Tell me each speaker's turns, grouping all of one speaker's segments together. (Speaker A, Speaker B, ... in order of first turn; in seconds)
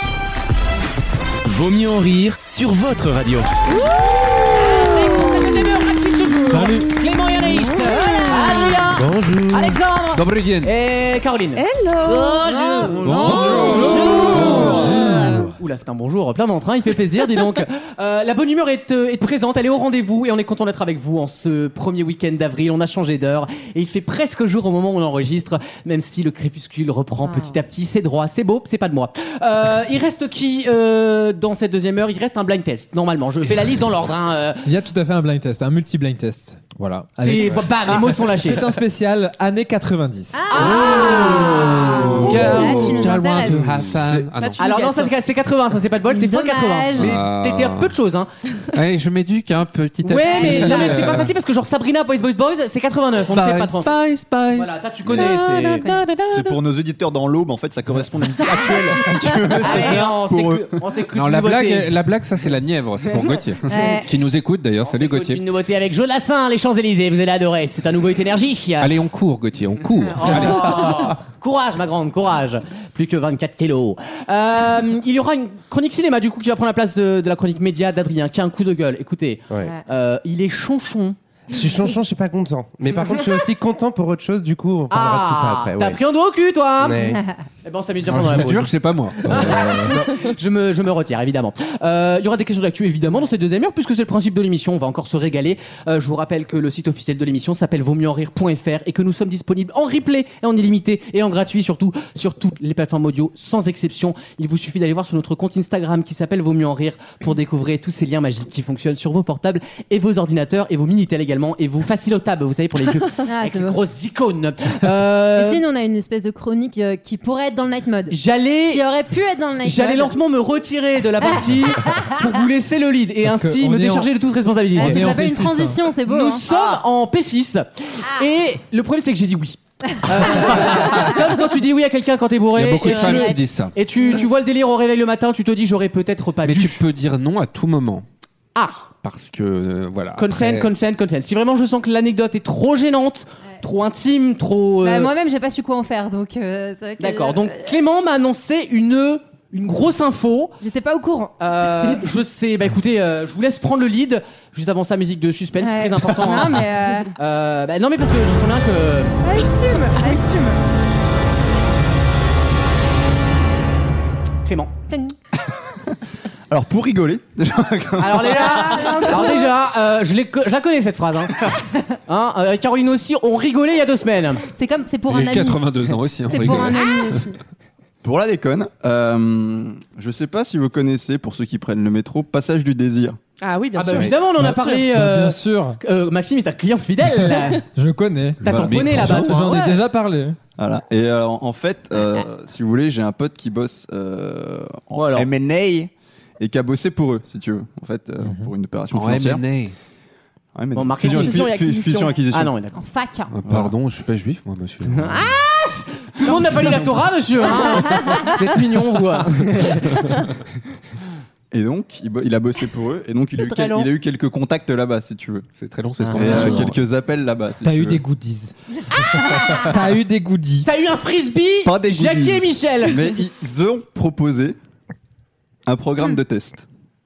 Speaker A: 1.4-3.6
Speaker B: 4.5-34.7, 37.2-38.7, 40.5-43.0, 44.6-48.3, 50.0-53.9, 54.5-55.9, 59.6-61.9, 64.8-68.9, 70.1-81.2, 84.9-88.7, 89.2-115.6, 118.1-118.8, 119.6-125.1, 126.0-136.8, 138.5-138.9, 140.2-145.1, 147.0-150.6, 151.4-159.2, 164.4-164.7, 168.0-171.3, 172.1-174.4, 183.7-187.6, 188.4-189.8, 194.9-195.3, 200.7-201.5, 202.3-202.8, 204.9-210.2, 216.0-216.5, 220.6-223.1
Speaker C: 6.5-6.9, 9.0-9.7, 13.6-14.2, 34.6-40.6, 123.2-124.1, 124.8-125.8, 184.3-185.8, 187.7-190.4, 198.2-198.5, 216.2-216.6, 217.6-220.7
Speaker D: 7.8-8.7, 12.4-15.4, 27.2-27.6, 40.3-43.7, 46.1-47.2, 50.2-51.1, 55.2-55.9, 63.7-64.1, 113.2-113.8, 115.3-118.2, 118.7-120.2, 121.2-122.2, 124.7-126.4, 129.9-131.2, 132.7-133.4, 134.0-134.3, 144.8-147.7, 150.6-152.1, 155.6-157.1, 159.2-160.6, 168.2-169.5, 174.5-175.6, 176.3-177.3, 202.7-203.3, 213.4-213.9, 219.2-219.6
Speaker E: 10.1-10.7, 13.0-15.1, 41.4-44.7, 47.0-47.9, 48.7-51.3, 53.3-56.6, 61.1-65.4, 68.8-71.2, 88.1-90.0, 132.5-133.7, 136.4-138.0, 139.0-140.7, 175.1-177.2, 188.5-189.2, 198.9-199.7, 203.3-205.3, 215.6-216.8
Speaker F: 11.6-12.4, 44.4-45.1, 183.4-184.8, 201.0-202.2, 206.2-206.7
Speaker G: 41.9-43.0, 56.2-60.7, 126.5-126.8, 166.5-169.2, 178.0-183.2, 188.4-189.5, 190.6-199.4, 200.5-202.5, 203.4-203.7, 211.5-215.5, 216.1-218.0, 221.6-224.6, 225.7-226.6
Speaker H: 81.5-86.0, 86.8-87.2